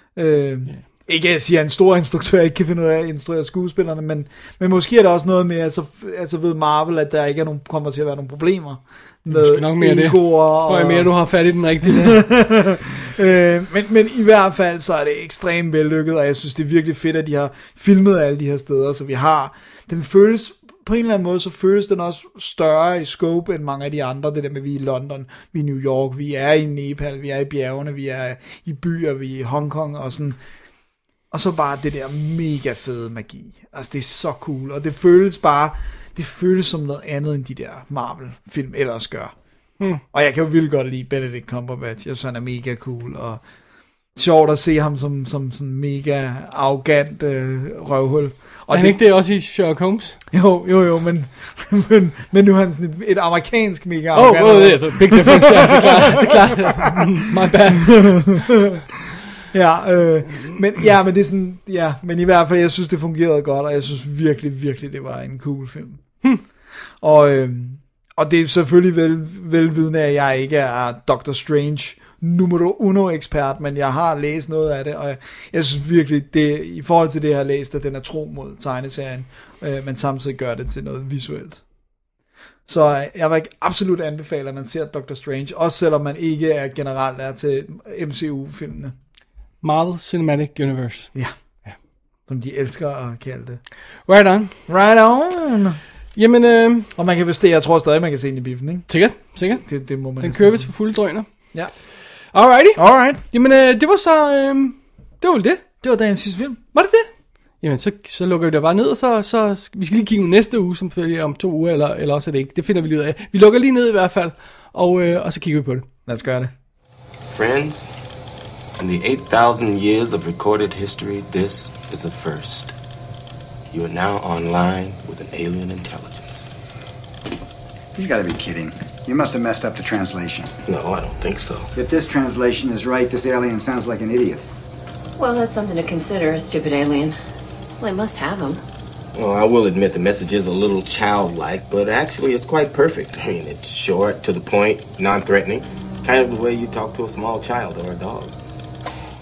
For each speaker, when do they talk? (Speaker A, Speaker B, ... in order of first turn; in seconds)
Speaker A: 0.1-11.1, 11.8-30.4, 31.3-39.3, 40.0-43.4, 44.1-49.0, 50.3-56.7, 57.7-58.8, 59.5-66.0, 67.0-81.6, 82.7-88.9, 92.3-93.6, 94.7-95.8, 97.0-98.9, 99.6-100.7, 102.8-103.2, 105.8-106.6, 116.0-116.5
Speaker B: 9.3-12.2, 48.7-50.2, 54.1-58.4, 60.3-60.6, 89.6-91.1, 94.1-94.5, 96.2-96.9, 98.9-99.7, 100.2-101.3, 102.3-105.6, 106.7-107.1, 107.6-115.8
Speaker C: 117.3-117.9, 118.8-122.7, 123.7-126.5, 130.7-131.7, 139.1-148.3
Speaker D: 127.9-130.5, 131.8-134.5
Speaker E: 135.2-137.2, 137.8-138.6